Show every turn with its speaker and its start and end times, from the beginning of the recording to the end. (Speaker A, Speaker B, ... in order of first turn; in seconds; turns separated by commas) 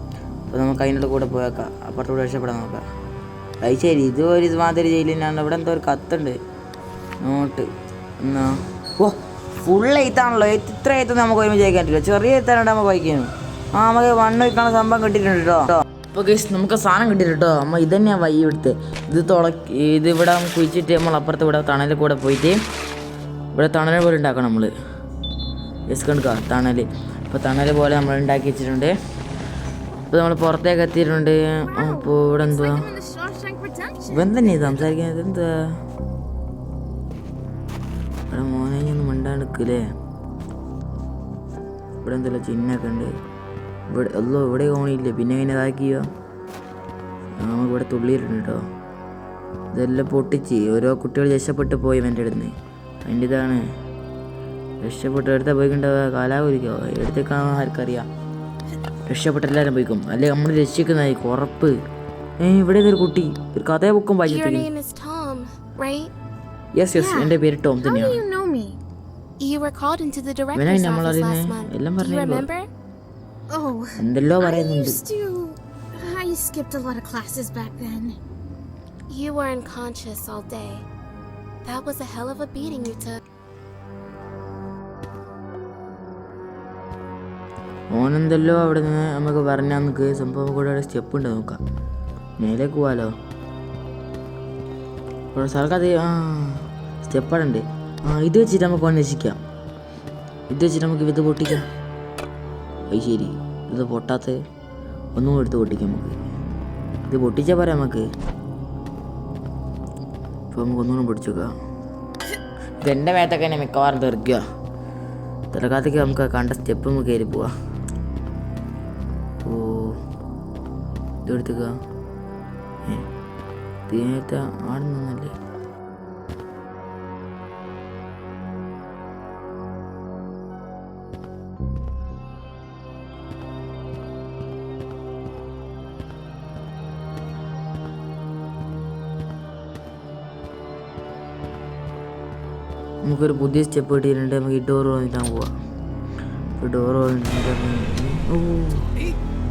Speaker A: 0.5-2.9, Speaker A: 3.6-6.4, Speaker A: 7.2-7.7, Speaker A: 8.2-22.5, Speaker A: 23.5-24.7, Speaker A: 25.9-28.9, Speaker A: 30.1-32.9, Speaker B: 31.7-34.9, Speaker A: 34.1-35.5, Speaker A: 38.3-39.8, Speaker A: 42.0-43.1, Speaker A: 43.9-46.1, Speaker A: 47.4-48.6, Speaker A: 49.7-52.5, Speaker A: 53.0-53.6, Speaker A: 54.8-58.1, Speaker A: 59.1-61.7, Speaker A: 62.4-64.7, Speaker C: 64.2-66.1, Speaker A: 66.8-68.2, Speaker B: 66.9-68.8, Speaker C: 69.4-72.7, Speaker A: 70.5-72.5, Speaker B: 73.5-78.2, Speaker A: 74.0-75.0, Speaker C: 79.1-80.8, Speaker C: 81.6-83.2, Speaker A: 87.9-91.6, Speaker A: 92.4-93.1, Speaker A: 95.3-99.4, Speaker A: 100.5-101.6, Speaker A: 102.9-104.4, Speaker A: 105.1-106.3, Speaker A: 107.1-108.0, Speaker A: 110.5-111.5, Speaker A: 112.8-114.4, Speaker A: 115.5-117.5, Speaker A: 119.4-119.9, Speaker A: 121.2-121.7, Speaker A: 123.9-125.3, Speaker A: 143.0-145.5, Speaker A: 146.6-148.8